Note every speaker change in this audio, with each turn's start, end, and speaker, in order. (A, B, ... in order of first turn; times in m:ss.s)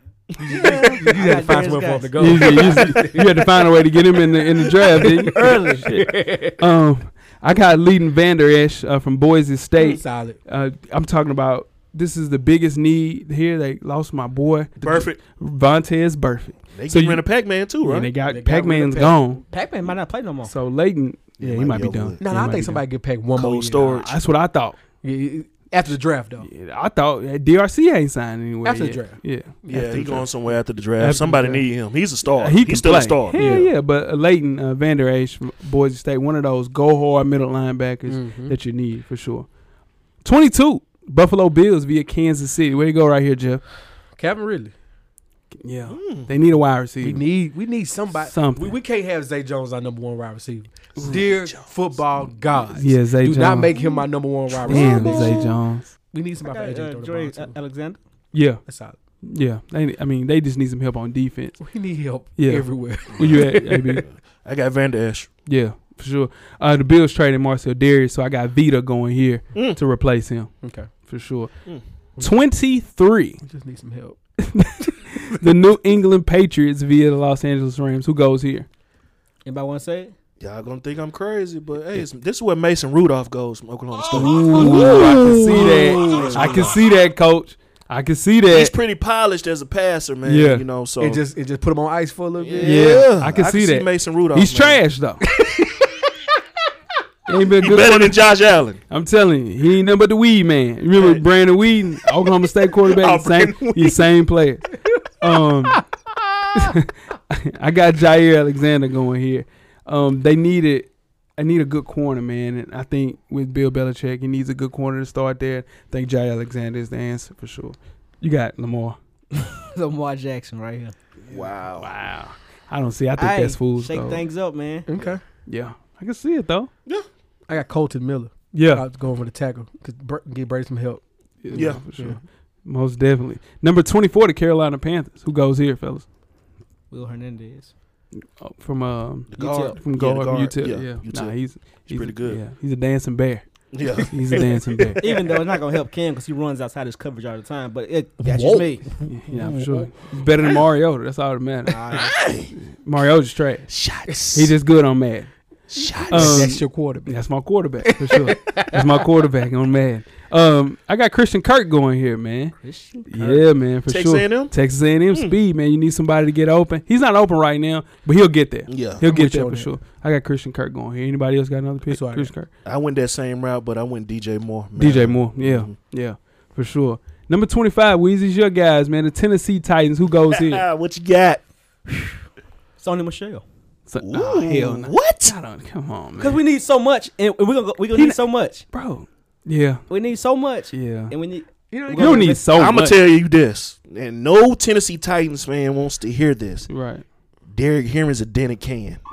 0:00.4-0:01.0 A
0:00.4-0:02.9 B
0:00.5-0:03.5 C
0:02.2-0:17.2 D
0:04.7-0:06.6 C
0:09.8-0:10.4 C
0:14.8-0:15.2 A
0:16.7-0:18.1 A
0:17.8-0:19.4 D
0:18.2-0:19.2 C
0:19.5-0:20.5 B
0:20.4-0:22.8 D
0:21.4-0:22.2 A
0:22.2-0:24.0 C
0:23.3-0:24.2 A
0:23.9-0:24.8 D
0:25.0-0:26.5 C
0:26.4-0:30.2 D
0:28.6-0:30.0 C
0:29.7-0:33.6 A
0:31.0-0:31.6 D
0:32.4-0:39.5 D
0:33.3-0:33.7 C
0:38.1-0:38.6 C
0:40.2-0:43.7 D
0:44.1-0:44.7 C
0:45.6-0:47.2 D
0:45.9-0:46.3 A
0:47.0-0:55.5 C
0:48.2-0:48.8 D
0:51.0-0:52.1 A
0:52.8-0:53.7 D
0:54.7-0:55.5 B
0:54.7-0:55.9 D
0:55.0-0:55.4 A
0:56.1-0:57.5 C
0:56.4-0:58.0 B
0:58.3-0:58.7 D
0:58.6-0:59.0 C
0:59.2-1:01.7 D
1:01.6-1:04.0 C
1:02.4-1:04.1 D
1:03.1-1:05.3 A
1:05.4-1:11.5 D
1:09.5-1:09.8 A
1:10.6-1:10.9 C
1:12.2-1:13.4 D
1:13.4-1:14.2 C
1:14.5-1:18.7 D
1:19.4-1:20.1 B
1:20.4-1:26.8 A
1:24.1-1:28.7 D
1:26.1-1:26.4 B
1:28.5-1:31.2 A
1:30.2-1:30.6 D
1:31.0-1:33.0 C
1:32.4-1:34.8 A
1:32.6-1:35.3 D
1:35.4-1:35.9 C
1:37.3-1:38.2 D
1:37.6-1:38.8 A
1:38.9-1:45.9 D
1:40.9-1:41.2 A
1:42.8-1:44.1 A
1:46.5-1:59.0 D
1:59.3-2:00.9 B
2:01.3-2:01.9 A
2:01.3-2:04.2 D
2:03.2-2:04.9 B
2:04.9-2:05.2 C
2:05.4-2:06.7 D
2:07.5-2:12.2 C
2:08.5-2:08.8 D
2:11.4-2:16.0 D
2:11.5-2:11.8 A
2:16.9-2:17.7 B
2:18.4-2:23.4 D
2:19.3-2:22.4 A
2:19.3-2:19.8 B
2:23.7-2:25.4 A
2:24.0-2:25.0 D
2:25.0-2:28.9 B
2:28.2-2:29.8 C
2:29.0-2:32.0 D
2:31.7-2:32.1 B
2:31.9-2:32.5 A
2:32.7-2:33.7 D
2:33.7-2:34.5 A
2:34.0-2:34.5 C
2:34.3-2:35.3 D
2:35.7-2:36.6 A
2:35.8-2:37.2 C
2:36.1-2:42.5 D
2:37.8-2:38.9 C
2:42.6-2:43.4 B
2:43.1-2:52.5 D
2:43.9-2:44.5 A
2:45.1-2:45.4 A
2:48.7-2:49.0 A
2:49.0-2:49.7 C
2:51.9-2:52.3 C
2:52.6-2:55.7 A
2:54.8-3:00.6 D
3:00.3-3:01.4 A
3:02.8-3:03.4 B
3:03.9-3:06.4 D
3:04.0-3:05.4 A
3:06.2-3:08.7 B
3:07.9-3:08.2 D
3:08.7-3:09.8 D
3:09.9-3:12.5 B
3:10.7-3:11.1 D
3:11.7-3:12.4 C
3:12.0-3:13.0 D
3:12.5-3:16.7 A
3:16.7-3:17.0 D
3:17.5-3:19.0 A